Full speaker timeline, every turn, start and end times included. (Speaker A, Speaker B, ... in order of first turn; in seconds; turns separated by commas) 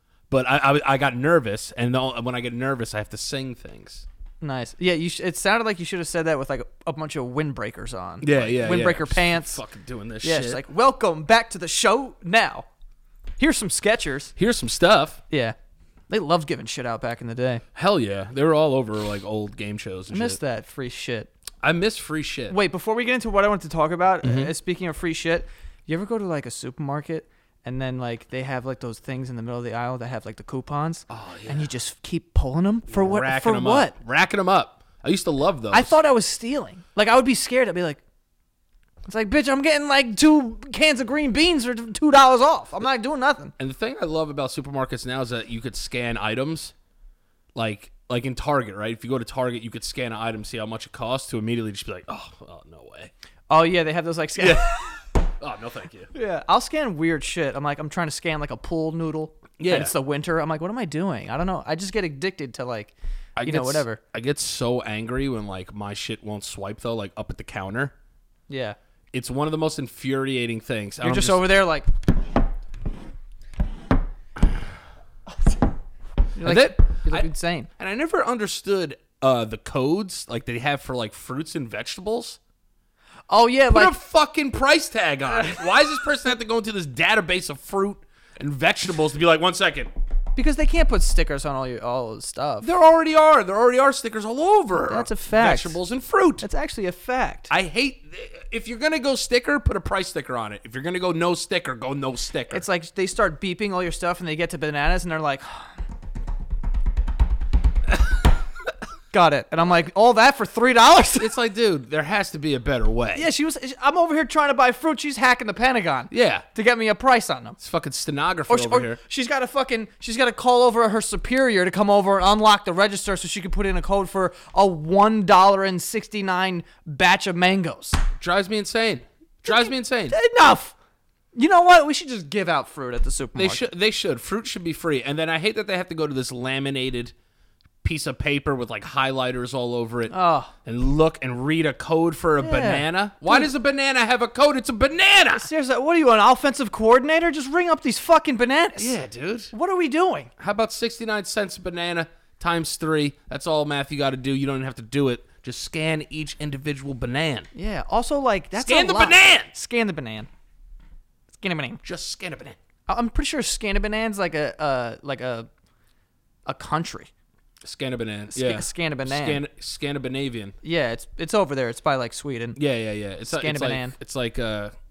Speaker A: 0.3-4.0, Speaker B: 4.4-9.6, Speaker A: 8.2-10.6, Speaker B: 10.2-12.7, Speaker B: 13.4-14.3, Speaker A: 14.4-15.2, Speaker B: 15.3-15.6, Speaker B: 16.1-17.6, Speaker A: 17.7-20.4, Speaker B: 20.1-21.3, Speaker A: 21.6-22.6, Speaker B: 22.5-33.9, Speaker A: 24.2-24.5, Speaker A: 31.1-31.7, Speaker A: 32.9-36.0, Speaker B: 35.7-38.0, Speaker B: 39.0-43.5, Speaker A: 43.6-46.7, Speaker A: 47.5-53.1, Speaker B: 53.5-54.9, Speaker A: 54.4-54.8, Speaker A: 55.4-56.1, Speaker B: 56.1-64.0, Speaker A: 59.6-59.9, Speaker A: 63.4-67.9, Speaker B: 68.5-68.8, Speaker A: 69.1-71.4, Speaker B: 71.0-71.9, Speaker B: 76.3-77.7, Speaker A: 76.4-82.4, Speaker B: 83.3-83.9, Speaker A: 83.7-89.9, Speaker B: 90.3-92.7, Speaker A: 92.6-96.4, Speaker B: 94.8-95.8, Speaker B: 96.4-97.5, Speaker A: 97.5-102.6, Speaker B: 102.5-105.7, Speaker B: 109.1-111.3, Speaker A: 111.2-113.3, Speaker B: 113.1-117.6, Speaker A: 116.1-116.5, Speaker A: 117.6-119.0, Speaker B: 118.5-128.0, Speaker A: 128.2-130.2, Speaker B: 129.5-130.7, Speaker B: 131.3-133.6, Speaker A: 133.3-137.1, Speaker A: 137.8-140.1, Speaker B: 140.1-140.5, Speaker A: 140.6-145.5, Speaker B: 142.4-143.5, Speaker B: 145.3-149.0, Speaker A: 148.8-149.5, Speaker B: 149.5-150.3, Speaker A: 150.4-157.5, Speaker B: 157.5-160.3, Speaker A: 158.6-159.6, Speaker B: 161.4-161.8, Speaker A: 161.8-162.6, Speaker B: 162.9-165.5, Speaker B: 166.4-167.1, Speaker A: 167.6-170.6, Speaker B: 168.3-169.4, Speaker B: 170.6-172.6, Speaker A: 172.6-174.7, Speaker B: 173.3-173.9